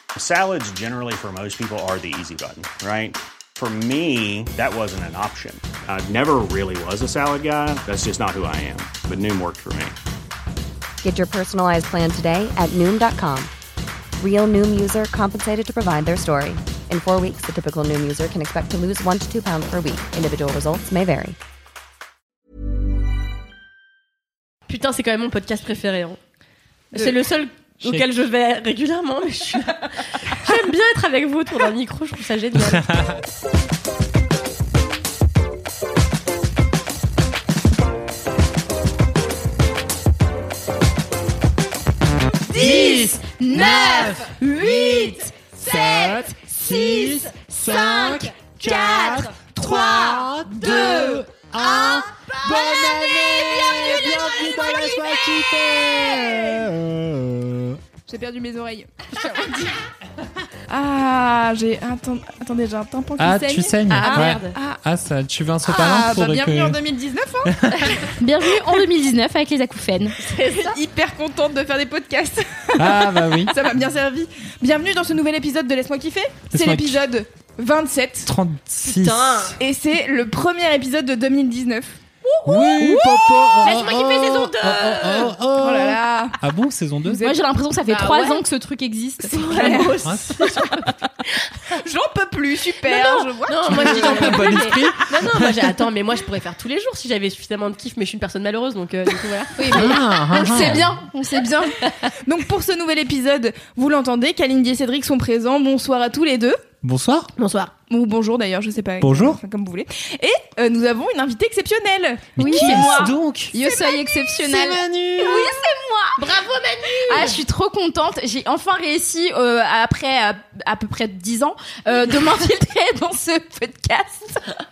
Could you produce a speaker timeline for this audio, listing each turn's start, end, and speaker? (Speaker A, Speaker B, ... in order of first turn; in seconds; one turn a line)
Speaker A: 0.1-9.9
Speaker B: 11.0-13.5
Speaker B: 14.2-21.4
Speaker C: 24.7-26.2
Speaker C: 26.9-32.9
Speaker D: 27.8-28.1
Speaker D: 32.7-33.2
Speaker E: 42.5-50.7
Speaker D: 42.5-57.8
Speaker F: 58.1-59.8
Speaker F: 60.7-64.8
Speaker D: 63.2-66.8
Speaker C: 63.9-64.6
Speaker E: 64.0-64.4
Speaker F: 65.6-68.1
Speaker D: 67.5-67.9
Speaker E: 68.2-70.2
Speaker C: 70.2-70.8
Speaker F: 70.5-78.3
Speaker D: 72.8-73.6
Speaker D: 76.5-77.0
Speaker D: 78.3-79.6
Speaker C: 78.8-79.6
Speaker F: 79.6-82.0
Speaker D: 82.5-87.3
Speaker C: 83.6-85.4
Speaker F: 85.5-86.4
Speaker F: 87.1-87.3
Speaker E: 87.2-89.9
Speaker C: 87.9-88.4
Speaker C: 89.3-91.5
Speaker F: 89.5-89.9
Speaker D: 90.0-90.6
Speaker F: 91.7-94.6
Speaker C: 92.8-101.1
Speaker D: 93.7-95.9
Speaker E: 99.6-101.8
Speaker D: 99.7-101.0
Speaker F: 101.3-106.6
Speaker C: 101.8-102.2
Speaker D: 106.8-107.3
Speaker C: 107.4-107.7
Speaker F: 107.9-113.1
Speaker D: 109.0-109.4
Speaker D: 112.4-113.7
Speaker E: 112.4-116.2
Speaker F: 113.6-114.1
Speaker D: 114.3-115.6
Speaker C: 116.2-117.4
Speaker E: 117.0-124.5